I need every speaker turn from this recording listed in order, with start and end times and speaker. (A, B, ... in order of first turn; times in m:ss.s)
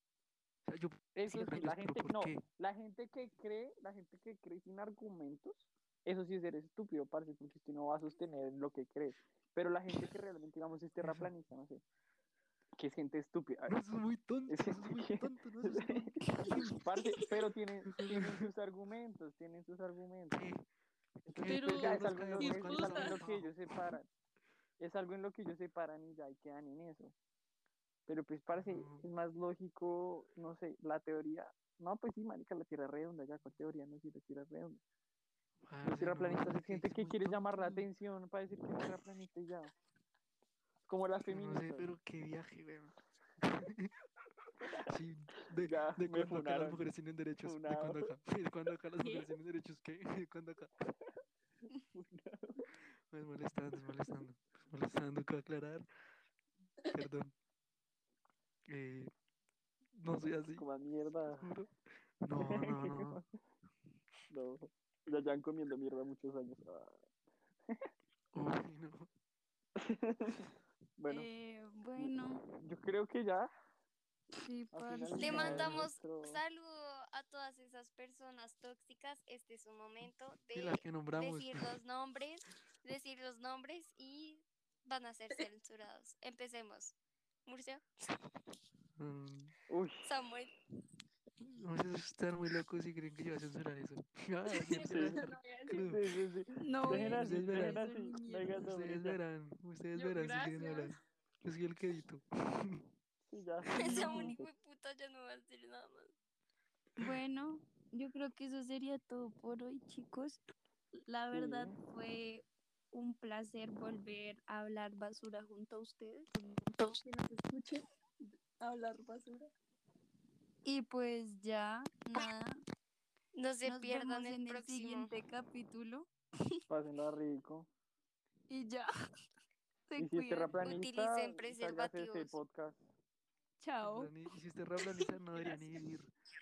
0:00.7-0:02.4 A
0:01.2-0:11.8 B
0:11.0-0:11.3 A
0:12.8-0:13.8 B
0:13.7-0:17.3 A
0:14.5-0:20.4 B
0:17.9-0:18.5 A
0:20.3-0:20.6 A
0:21.2-0:24.0 A
0:21.3-0:24.1 B
0:21.4-0:23.2 C
0:24.8-0:27.2 B
0:28.1-0:34.8 B
0:28.6-0:29.1 A
0:35.6-0:37.9 A
0:35.8-0:39.7 B
0:40.9-0:41.9 B
0:41.3-0:50.7 A
0:44.6-0:44.9 B
0:45.6-0:46.8 B
0:47.4-0:48.1 B
0:51.9-0:52.6 B
0:53.1-0:55.9 A
0:56.9-0:57.3 A
0:58.7-0:59.1 A
1:00.0-1:00.7 A
1:00.5-1:01.5 B
1:01.4-1:01.7 A
1:02.2-1:03.2 A
1:02.4-1:03.3 B
1:04.3-1:07.0 B
1:08.3-1:09.1 A
1:09.8-1:11.3 B
1:11.1-1:12.4 D
1:12.0-1:13.5 B
1:14.4-1:15.7 D
1:14.7-1:16.4 B
1:15.2-1:27.0 E
1:20.5-1:21.7 A
1:27.5-1:27.8 E
1:29.0-1:29.5 A
1:29.7-1:30.1 B
1:30.0-1:30.5 E
1:31.4-1:36.1 A
1:34.6-1:35.9 C
1:34.8-1:35.2 B
1:35.8-1:39.2 B
1:36.6-1:38.6 D
1:36.8-1:37.9 A
1:38.5-1:42.8 A
1:40.0-1:41.0 C
1:43.3-1:44.5 B
1:43.8-1:46.1 E
1:47.0-1:50.4 D
1:51.1-1:56.3 D
1:51.3-1:51.8 B
1:56.3-1:57.0 A
1:57.0-1:57.8 C
1:58.6-1:59.5 C
2:00.6-2:02.6 D
2:03.3-2:05.1 E
2:03.6-2:06.6 D
2:06.7-2:07.7 B
2:08.5-2:08.9 D
2:09.9-2:10.6 D
2:10.0-2:12.8 B
2:10.6-2:12.4 E
2:13.6-2:14.1 D
2:13.8-2:16.1 A